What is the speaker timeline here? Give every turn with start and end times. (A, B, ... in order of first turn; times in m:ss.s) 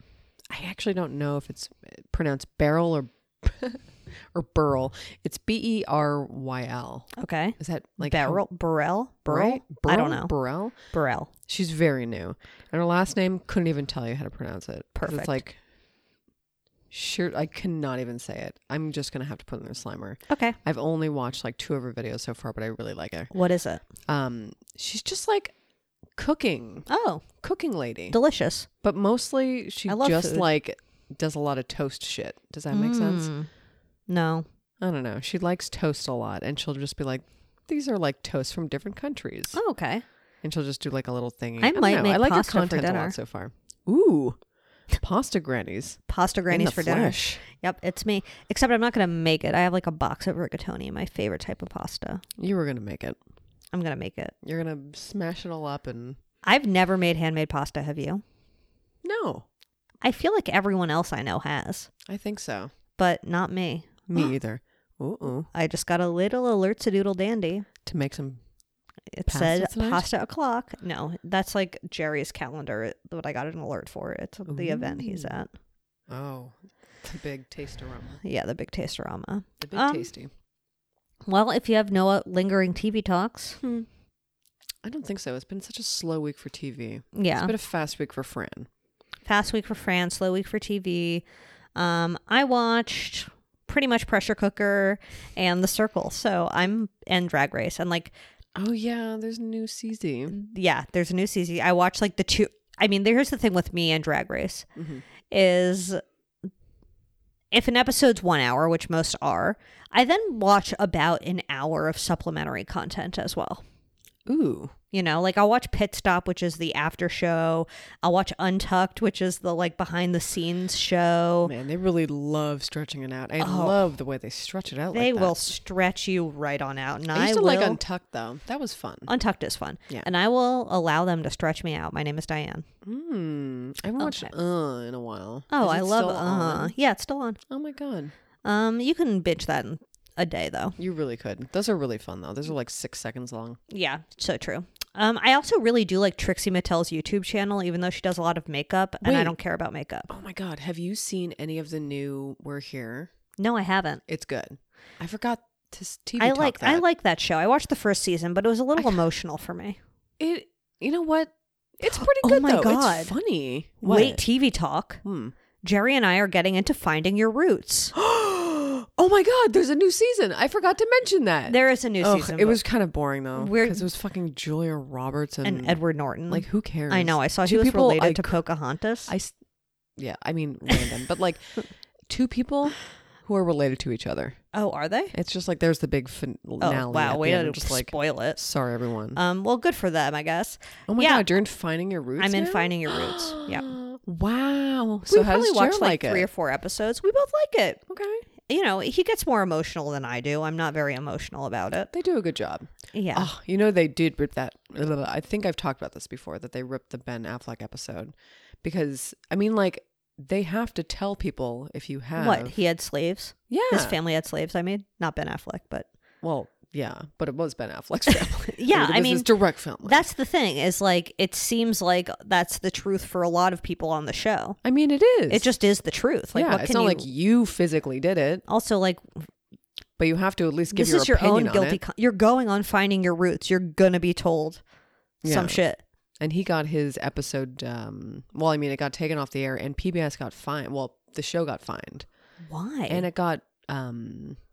0:00.5-0:08.4 A
0:07.2-0:11.3 B
0:09.3-0:10.8 A
0:11.5-0:15.6 A
0:15.0-0:15.4 B
0:16.9-0:23.3 A
0:20.3-0:20.6 B
0:23.3-0:23.8 B
0:24.1-0:25.6 A
0:26.2-0:26.9 A
0:26.9-0:27.2 B
0:27.4-0:28.2 A
0:28.1-0:28.7 B
0:28.8-0:33.3 A
0:29.9-0:30.5 B
0:32.7-0:33.5 B
0:34.1-0:34.5 B
0:34.8-0:39.6 A
0:39.5-0:40.0 B
0:40.4-0:44.4 A
0:41.6-0:43.2 B
0:45.0-0:47.4 A
0:46.1-0:52.2 B
0:52.4-0:53.2 A
0:53.7-0:54.3 B
0:54.4-0:56.2 A
0:56.4-0:58.2 B
0:59.0-0:59.5 A
1:00.0-1:01.9 B
1:02.1-1:02.7 A
1:03.0-1:04.3 B
1:04.1-1:05.5 A
1:05.5-1:07.7 B
1:07.8-1:08.4 A
1:09.1-1:15.5 B
1:09.3-1:10.1 A
1:14.5-1:15.4 A
1:16.1-1:18.2 A
1:18.2-1:20.1 B
1:19.6-1:20.3 A
1:21.3-1:23.6 B
1:23.6-1:23.9 A
1:24.8-1:28.7 A
1:27.2-1:27.5 B
1:29.3-1:31.2 B
1:31.8-1:38.1 B
1:38.6-1:40.4 A
1:40.3-1:44.7 B
1:44.8-1:45.0 A
1:45.3-1:46.0 B
1:47.5-1:53.6 B
1:54.3-1:54.7 A
1:54.9-2:01.5 B
2:01.4-2:05.4 A
2:03.4-2:03.8 B
2:04.9-2:07.8 B
2:07.1-2:09.1 A
2:09.1-2:12.7 B
2:12.8-2:16.8 A
2:14.0-2:14.3 B
2:15.5-2:17.4 B
2:17.5-2:18.1 A
2:18.4-2:20.8 B
2:20.8-2:23.6 A
2:23.7-2:30.1 B
2:29.0-2:29.4 A
2:30.1-2:33.1 A
2:33.4-2:34.0 B
2:34.1-2:36.8 A
2:36.2-2:39.8 B
2:38.8-2:39.0 A
2:40.2-2:44.2 A
2:41.9-2:43.1 B
2:43.8-2:45.0 B
2:45.0-2:45.3 A
2:45.6-2:47.9 B
2:47.9-2:58.4 A
2:51.5-2:52.6 B
2:53.4-2:53.8 B
2:55.4-2:59.1 B
2:59.1-2:59.3 A
3:00.0-3:04.4 A
3:04.5-3:05.1 B
3:05.1-3:09.2 A
3:06.6-3:08.4 B
3:09.2-3:11.3 B
3:10.9-3:16.3 A
3:12.2-3:13.7 B
3:15.1-3:17.8 B
3:17.9-3:18.2 A
3:18.5-3:21.9 B
3:21.9-3:32.5 A
3:22.9-3:23.3 B
3:32.2-3:35.9 B
3:33.5-3:34.0 A
3:36.2-3:40.0 A
3:38.4-3:39.3 B
3:39.8-3:44.6 B
3:44.6-3:45.5 A
3:45.3-3:47.1 B
3:46.3-3:48.4 A
3:48.5-3:49.0 B
3:50.0-3:51.8 A
3:50.7-3:54.6 B
3:55.2-3:55.6 A
3:55.2-3:55.8 B
3:56.2-4:02.1 A
4:02.5-4:03.1 B
4:02.9-4:04.4 A